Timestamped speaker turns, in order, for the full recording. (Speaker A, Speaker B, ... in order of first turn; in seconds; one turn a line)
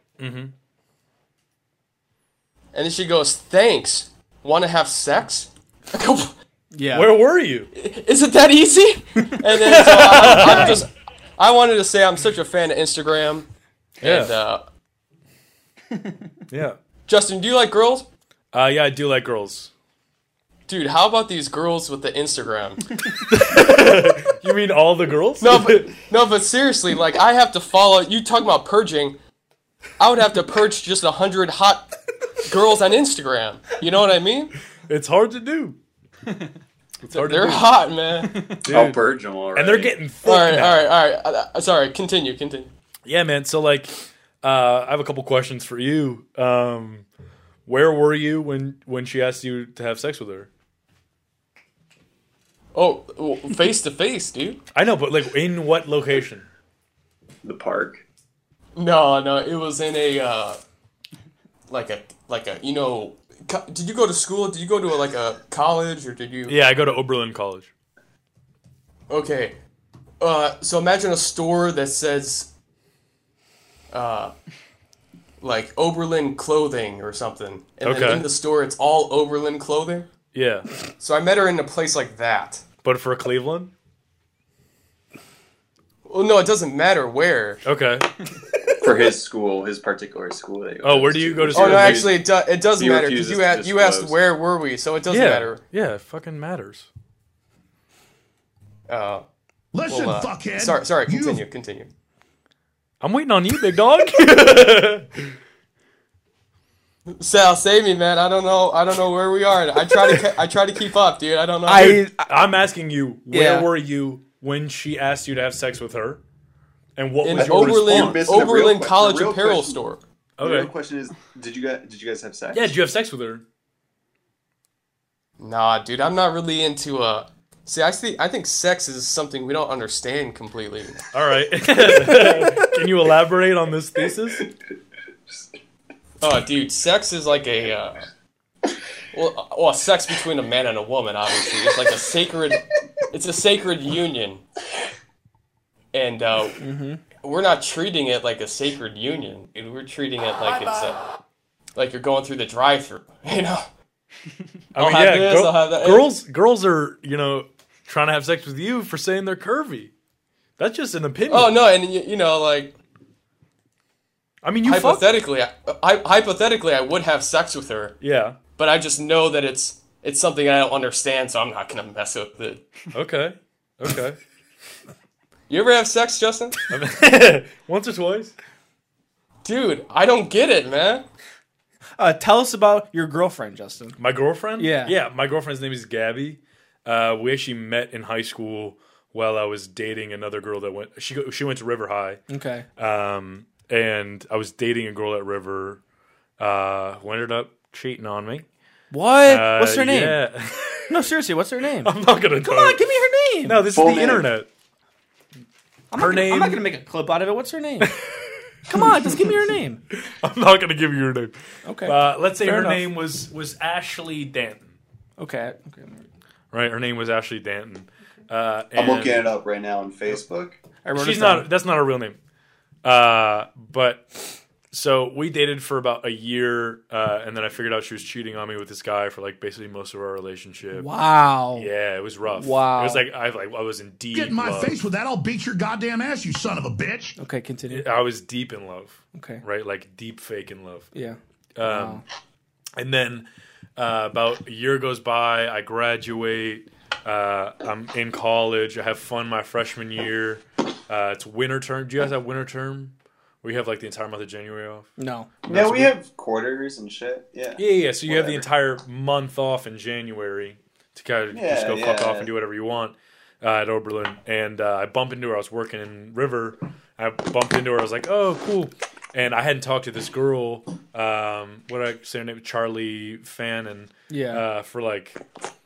Speaker A: 0.2-0.5
Speaker B: 2.7-6.3
Speaker C: 6.7-7.1
Speaker A: 6.9-7.7
Speaker B: 7.7-13.5
Speaker A: 9.5-10.8
Speaker B: 14.0-14.6
Speaker A: 14.0-14.4
Speaker A: 16.5-16.8
Speaker B: 17.1-18.1
Speaker A: 18.5-19.7
Speaker B: 20.7-22.9
Speaker A: 23.3-26.0
Speaker B: 25.4-29.2
Speaker B: 30.0-31.9
Speaker B: 32.4-34.5
Speaker A: 34.9-35.8
Speaker A: 37.0-37.7
Speaker B: 37.1-38.3
Speaker A: 38.6-39.0
Speaker D: 38.7-40.0
Speaker A: 39.5-40.9
Speaker B: 40.2-42.7
Speaker A: 43.0-47.0
Speaker A: 47.6-50.5
Speaker B: 52.7-54.6
Speaker A: 54.7-56.5
Speaker D: 57.4-58.0
Speaker B: 58.8-60.6
Speaker B: 61.7-66.6
Speaker A: 66.5-67.7
Speaker B: 69.1-69.6
Speaker B: 70.2-72.5
Speaker B: 73.9-74.3
Speaker B: 75.4-80.1
Speaker A: 77.8-78.3
Speaker A: 80.3-80.7
Speaker B: 81.0-82.6
Speaker A: 82.8-83.7
Speaker B: 86.0-87.6
Speaker A: 87.6-88.1
Speaker D: 88.8-94.2
Speaker A: 90.8-92.1
Speaker B: 91.5-95.6
Speaker A: 95.1-96.9
Speaker B: 98.9-99.2
Speaker E: 99.7-101.5
Speaker B: 99.9-101.9
Speaker A: 103.0-105.3
Speaker B: 107.1-112.0
Speaker C: 111.7-112.3
Speaker A: 111.7-116.2
Speaker C: 113.3-113.7
Speaker A: 117.0-118.4
Speaker B: 117.2-120.0
Speaker D: 117.3-119.8
Speaker A: 120.4-120.7
Speaker D: 120.4-122.7
Speaker A: 122.5-123.4
Speaker B: 125.4-131.0
Speaker A: 131.1-134.4
Speaker B: 136.2-138.1
Speaker B: 139.1-144.4
Speaker B: 145.9-146.6
Speaker C: 146.6-147.0
Speaker B: 147.2-151.0
Speaker B: 151.7-153.7
Speaker A: 154.7-159.9
Speaker B: 154.8-156.1
Speaker A: 160.6-161.6
Speaker B: 161.3-162.7
Speaker A: 164.4-165.1
Speaker B: 164.6-167.9
Speaker A: 168.0-168.4
Speaker B: 168.6-172.6
Speaker A: 172.9-174.2
Speaker B: 175.5-176.6
Speaker A: 176.7-178.3
Speaker B: 179.4-181.0
Speaker C: 182.0-183.9
Speaker A: 184.0-192.2
Speaker C: 184.6-184.9
Speaker C: 192.3-192.6
Speaker A: 192.8-195.8
Speaker A: 196.4-198.4
Speaker C: 198.9-200.2
Speaker A: 199.2-201.0
Speaker C: 200.9-203.6
Speaker A: 201.8-202.8
Speaker A: 203.4-204.5
Speaker D: 203.7-204.3
Speaker C: 205.9-207.9
Speaker A: 205.9-206.6
Speaker A: 207.8-209.4
Speaker C: 208.7-209.8
Speaker A: 209.9-214.8
Speaker C: 211.6-212.8
Speaker C: 215.2-216.1
Speaker A: 216.5-219.2
Speaker D: 218.7-220.6
Speaker C: 220.8-221.5
Speaker A: 220.9-222.2
Speaker A: 222.8-224.2
Speaker A: 224.7-230.9
Speaker C: 230.7-231.7
Speaker A: 231.5-234.8
Speaker C: 232.4-233.0
Speaker E: 234.1-237.1
Speaker C: 237.2-237.8
Speaker A: 237.7-240.9
Speaker C: 239.1-239.4
Speaker C: 240.9-242.0
Speaker A: 241.6-242.0
Speaker A: 242.8-243.2
Speaker A: 243.8-254.9
Speaker C: 255.0-255.3
Speaker A: 255.4-255.9
Speaker D: 255.5-258.5
Speaker A: 257.6-275.2
Speaker D: 261.3-262.3
Speaker C: 274.1-274.4